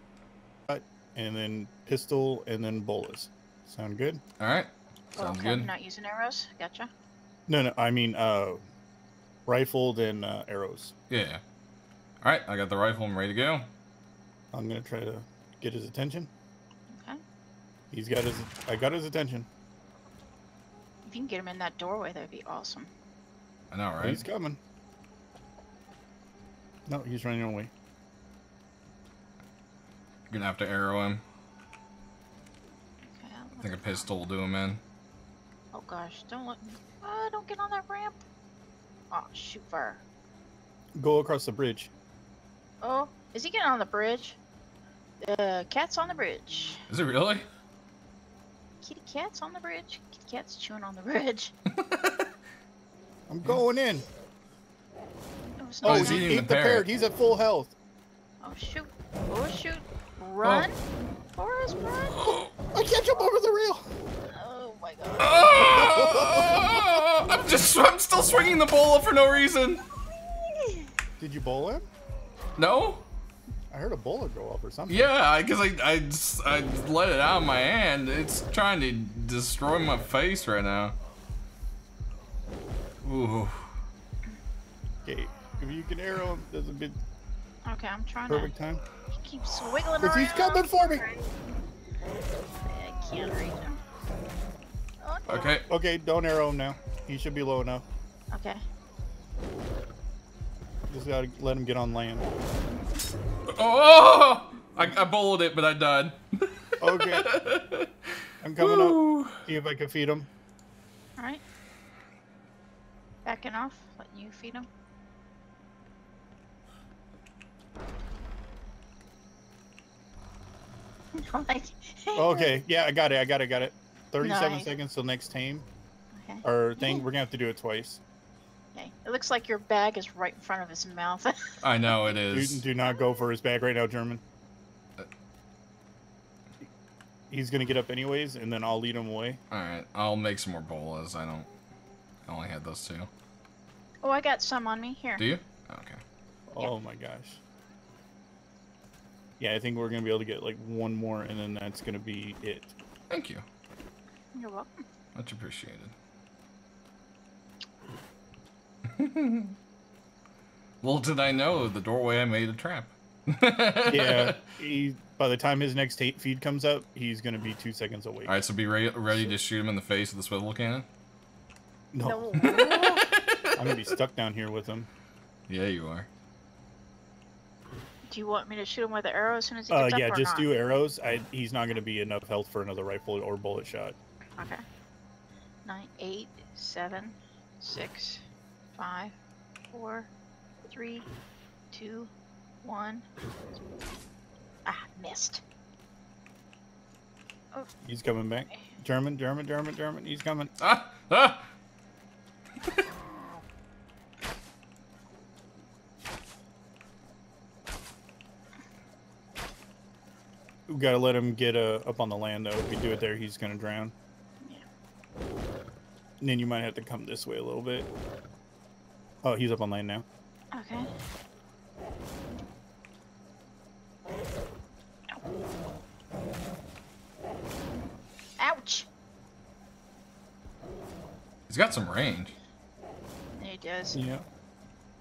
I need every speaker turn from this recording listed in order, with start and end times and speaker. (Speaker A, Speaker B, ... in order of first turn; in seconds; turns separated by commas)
Speaker A: 0.7-4.2, Speaker B: 4.4-5.7, Speaker C: 5.2-6.9, Speaker A: 7.5-8.6, Speaker A: 9.5-10.9, Speaker B: 11.1-11.4, Speaker B: 12.2-13.7, Speaker A: 14.5-16.3, Speaker C: 16.9-17.2, Speaker A: 17.9-19.5, Speaker C: 21.1-22.9, Speaker B: 23.7-24.2, Speaker A: 24.0-24.6, Speaker A: 26.9-27.7, Speaker B: 30.3-31.2, Speaker C: 33.1-34.1, Speaker B: 33.6-34.8, Speaker C: 35.7-38.2, Speaker C: 39.1-40.0, Speaker A: 41.0-41.9, Speaker C: 42.8-44.4, Speaker C: 45.2-46.8, Speaker B: 46.9-47.5, Speaker C: 48.8-51.5, Speaker B: 51.8-52.2, Speaker A: 53.3-54.1, Speaker C: 55.6-56.4, Speaker B: 55.8-56.9, Speaker A: 55.8-57.8, Speaker C: 58.4-60.8, Speaker B: 60.4-60.7, Speaker C: 61.4-62.3, Speaker B: 62.2-62.5, Speaker A: 62.7-63.9, Speaker C: 64.3-65.6, Speaker B: 65.2-69.8, Speaker A: 65.5-66.9, Speaker C: 70.3-70.9, Speaker A: 71.2-71.8, Speaker B: 72.6-73.0, Speaker A: 73.7-75.1, Speaker B: 74.9-81.0, Speaker B: 83.0-83.7, Speaker A: 85.0-87.0, Speaker C: 87.7-88.5, Speaker A: 88.3-88.8, Speaker C: 89.1-91.3, Speaker A: 90.0-91.1, Speaker C: 92.7-93.8, Speaker C: 95.0-95.6, Speaker B: 95.3-95.7, Speaker A: 95.3-97.8, Speaker C: 98.3-98.6, Speaker A: 100.9-102.3, Speaker B: 103.5-107.9, Speaker A: 106.8-107.3, Speaker A: 108.4-110.3, Speaker B: 108.6-109.4, Speaker C: 111.2-111.4, Speaker C: 113.2-114.7, Speaker C: 121.2-122.5, Speaker A: 122.2-125.7, Speaker C: 124.2-124.8, Speaker C: 126.1-127.0, Speaker A: 126.4-128.0, Speaker C: 128.7-132.0, Speaker B: 131.6-132.7, Speaker A: 132.3-134.2, Speaker A: 137.3-139.4, Speaker B: 139.5-141.5, Speaker B: 142.3-143.1, Speaker C: 144.0-145.2, Speaker B: 145.2-146.0, Speaker A: 146.5-147.4, Speaker A: 149.4-152.7, Speaker B: 153.1-153.4, Speaker C: 154.3-154.8, Speaker B: 155.2-155.9, Speaker B: 158.9-159.6, Speaker B: 160.8-164.4, Speaker A: 163.9-168.4, Speaker B: 168.2-170.9, Speaker A: 169.1-169.3, Speaker A: 171.9-172.9, Speaker C: 172.1-173.0, Speaker B: 172.4-173.9, Speaker A: 173.6-174.9, Speaker B: 175.5-176.1, Speaker C: 178.1-180.5, Speaker A: 179.7-184.0, Speaker C: 185.7-188.2, Speaker C: 188.8-189.2, Speaker C: 189.7-190.1, Speaker C: 190.6-191.1, Speaker C: 191.7-192.1, Speaker C: 192.6-193.1, Speaker C: 194.7-195.4, Speaker A: 197.8-200.5, Speaker B: 200.6-201.4, Speaker A: 210.7-213.9, Speaker A: 216.2-217.9, Speaker A: 219.2-220.1, Speaker C: 220.5-220.9, Speaker C: 228.4-228.9, Speaker B: 231.5-232.3, Speaker C: 233.4-234.0, Speaker A: 233.9-234.2